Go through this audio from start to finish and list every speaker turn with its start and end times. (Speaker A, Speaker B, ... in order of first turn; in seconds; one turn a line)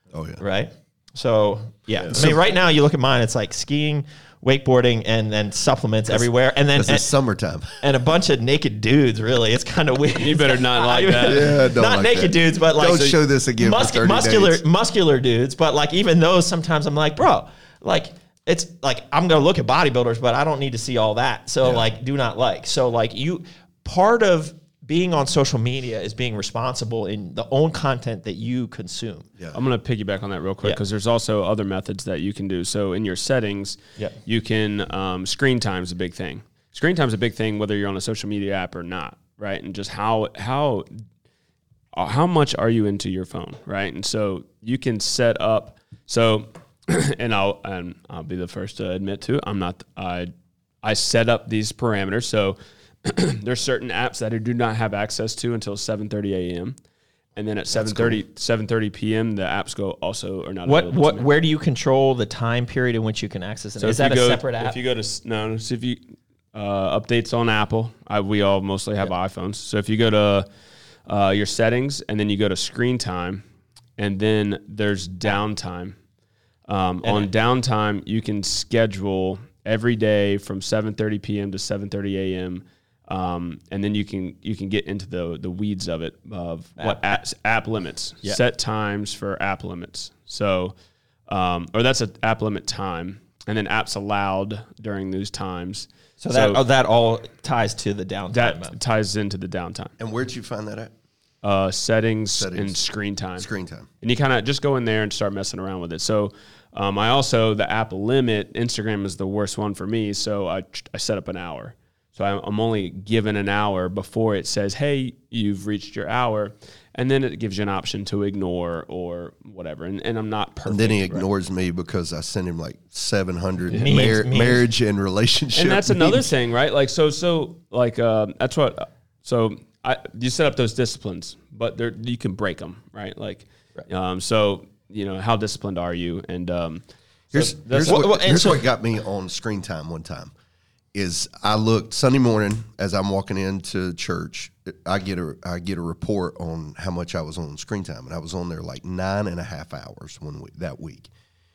Speaker A: 0.1-0.4
Speaker B: 0.4-7.1
Speaker A: 2.0-2.4
Speaker A: 6.1-7.8
Speaker B: 7.8-29.3
Speaker C: 10.2-11.6
Speaker A: 11.3-14.6
Speaker C: 29.5-40.9
Speaker C: 42.0-50.3
Speaker C: 50.8-56.8
Speaker C: 57.4-61.3
Speaker A: 57.7-58.2
Speaker B: 60.7-64.8
Speaker C: 63.8-66.0
Speaker C: 66.5-70.5
Speaker C: 71.1-73.4
Speaker C: 74.0-76.0
Speaker C: 76.7-90.7
Speaker B: 77.0-77.3
Speaker B: 86.8-87.2
Speaker C: 91.3-96.6
Speaker B: 96.2-98.8
Speaker C: 98.3-99.9
Speaker A: 100.0-100.9
Speaker C: 101.4-103.5
Speaker A: 102.4-102.8
Speaker A: 103.4-103.9
Speaker C: 104.0-121.3
Speaker A: 120.7-126.3
Speaker B: 123.7-124.6
Speaker C: 125.5-138.0
Speaker B: 137.3-138.6
Speaker A: 137.3-140.3
Speaker A: 140.9-151.1